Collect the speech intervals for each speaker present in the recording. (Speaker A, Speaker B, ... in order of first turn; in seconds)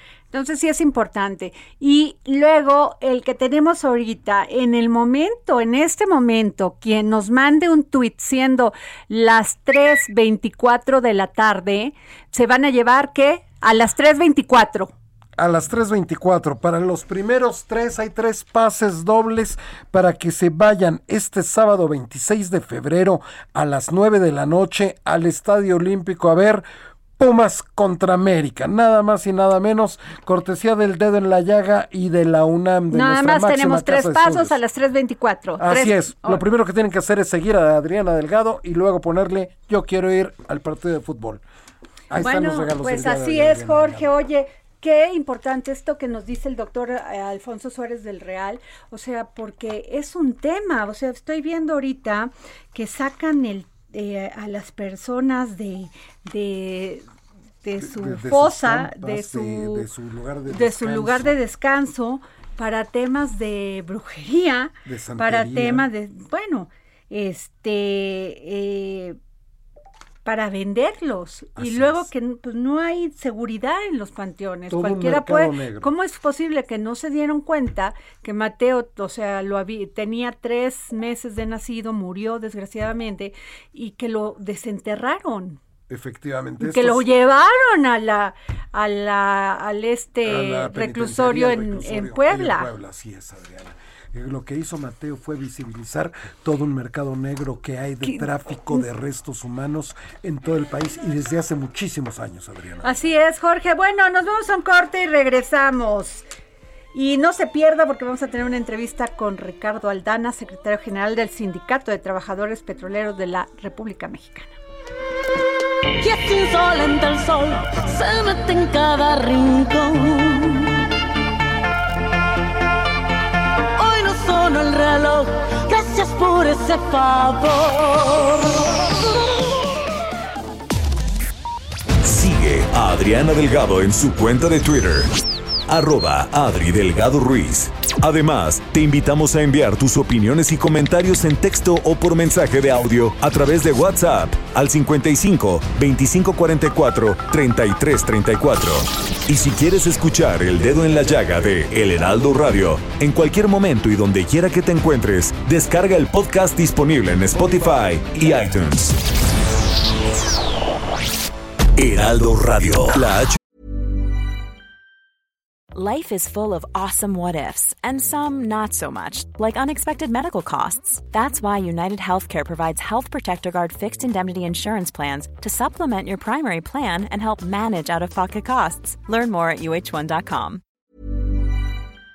Speaker A: 0.3-14.9, 32.9-36.4, 42.2-57.0, 57.6-59.9, 60.5-69.2, 70.2-85.6, 86.6-92.7, 98.0-98.8, 102.8-106.3, 106.9-114.6
Speaker B: 15.4-26.6, 27.2-34.6, 35.6-41.4, 42.1-44.1, 57.8-61.4, 64.8-65.9, 71.6-72.1, 74.7-75.9, 85.9-87.1, 90.2-103.0
Speaker C: 116.0-120.9, 123.8-128.7
Speaker D: 132.0-135.1, 135.7-159.0, 161.8-163.4
Speaker E: 165.7-180.6